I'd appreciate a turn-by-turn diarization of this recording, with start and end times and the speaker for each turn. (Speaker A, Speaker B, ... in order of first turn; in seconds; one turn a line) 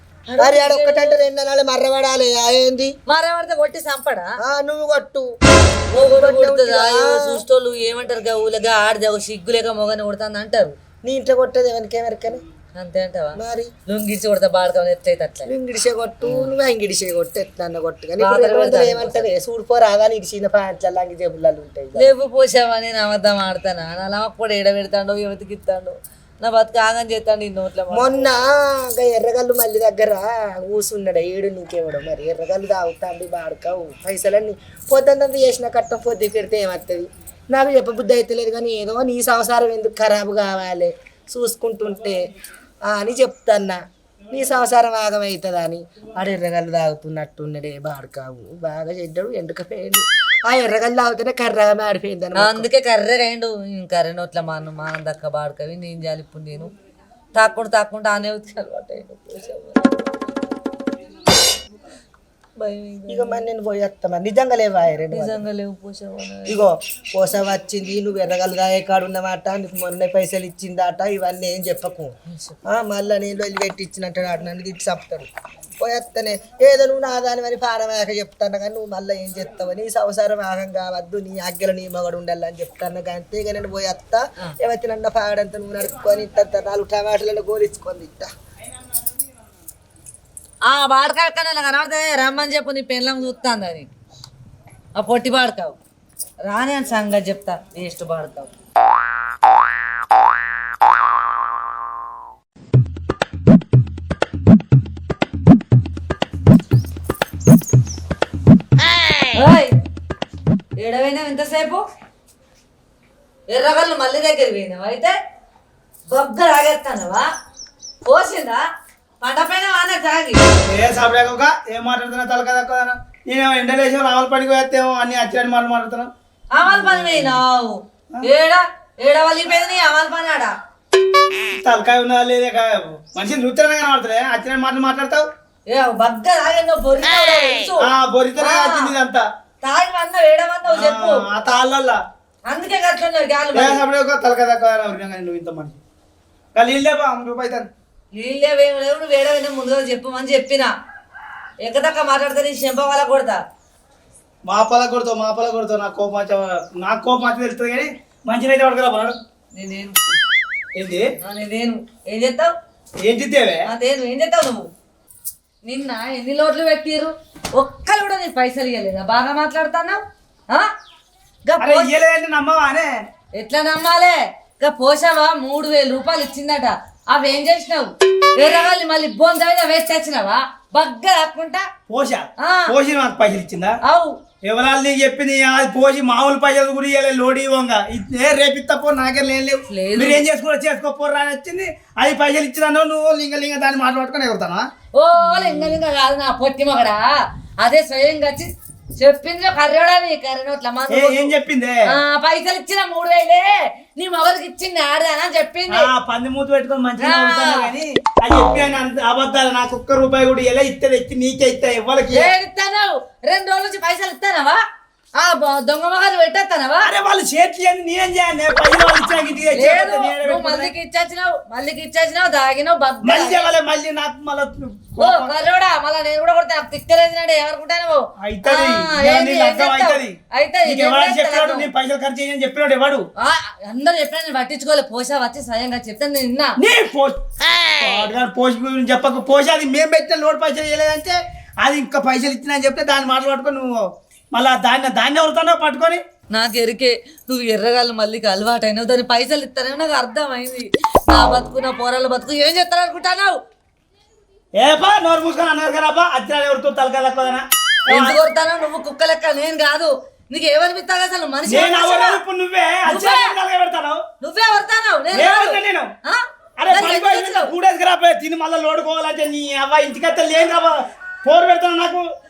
Speaker A: 0.3-1.2
Speaker B: 0.4-2.9
Speaker A: 3.1-4.3
Speaker B: 4.4-5.2
Speaker A: 5.9-10.7
Speaker B: 6.0-7.4
Speaker B: 11.0-12.4
Speaker A: 12.8-15.5
Speaker B: 13.3-13.7
Speaker B: 15.4-22.1
Speaker A: 16.2-16.5
Speaker A: 18.2-19.3
Speaker A: 22.0-28.4
Speaker B: 27.9-42.2
Speaker B: 42.8-43.8
Speaker B: 44.3-52.7
Speaker A: 52.4-56.7
Speaker A: 57.3-60.2
Speaker A: 62.6-63.4
Speaker B: 63.1-65.4
Speaker A: 65.1-66.6
Speaker B: 66.5-72.1
Speaker A: 72.3-72.6
Speaker B: 72.7-88.3
Speaker A: 90.7-93.9
Speaker A: 95.0-95.8
Speaker A: 96.4-98.5
Speaker A: 109.3-109.7
Speaker A: 110.8-111.8
Speaker A: 113.5-115.1
Speaker A: 116.1-117.2
Speaker A: 118.1-118.6
Speaker A: 119.2-120.4
Speaker C: 120.7-126.1
Speaker A: 126.5-130.5
Speaker C: 126.7-127.4
Speaker C: 131.5-135.2
Speaker A: 135.7-137.9
Speaker C: 137.8-139.2
Speaker A: 138.4-138.9
Speaker A: 139.6-141.2
Speaker C: 140.7-142.0
Speaker A: 142.5-143.8
Speaker C: 143.5-145.8
Speaker C: 146.5-147.7
Speaker A: 148.2-150.7
Speaker A: 151.6-153.4
Speaker C: 154.4-159.2
Speaker A: 159.5-160.0
Speaker C: 160.7-161.1
Speaker A: 161.2-162.5
Speaker C: 163.0-163.6
Speaker A: 163.7-164.6
Speaker A: 165.7-170.7
Speaker A: 171.4-171.9
Speaker C: 171.6-172.9
Speaker A: 173.4-181.7
Speaker C: 181.9-183.8
Speaker A: 182.4-182.7
Speaker A: 183.8-184.1
Speaker C: 184.4-194.7
Speaker A: 189.7-190.2
Speaker A: 194.9-197.1
Speaker C: 195.3-195.7
Speaker A: 197.6-201.3
Speaker C: 200.9-201.8
Speaker A: 201.9-205.9
Speaker C: 205.7-212.3
Speaker A: 207.0-207.7
Speaker A: 212.1-214.6
Speaker A: 215.2-216.9
Speaker C: 216.8-220.7
Speaker A: 219.6-223.5
Speaker C: 223.0-225.3
Speaker A: 225.0-231.7
Speaker C: 228.2-233.0
Speaker A: 233.2-236.6
Speaker C: 236.6-237.2
Speaker C: 237.8-246.0
Speaker A: 246.3-253.4
Speaker C: 254.6-258.2
Speaker A: 257.9-262.2
Speaker C: 261.5-264.0
Speaker A: 262.9-263.3
Speaker A: 264.2-267.5
Speaker C: 265.1-265.9
Speaker C: 266.6-272.0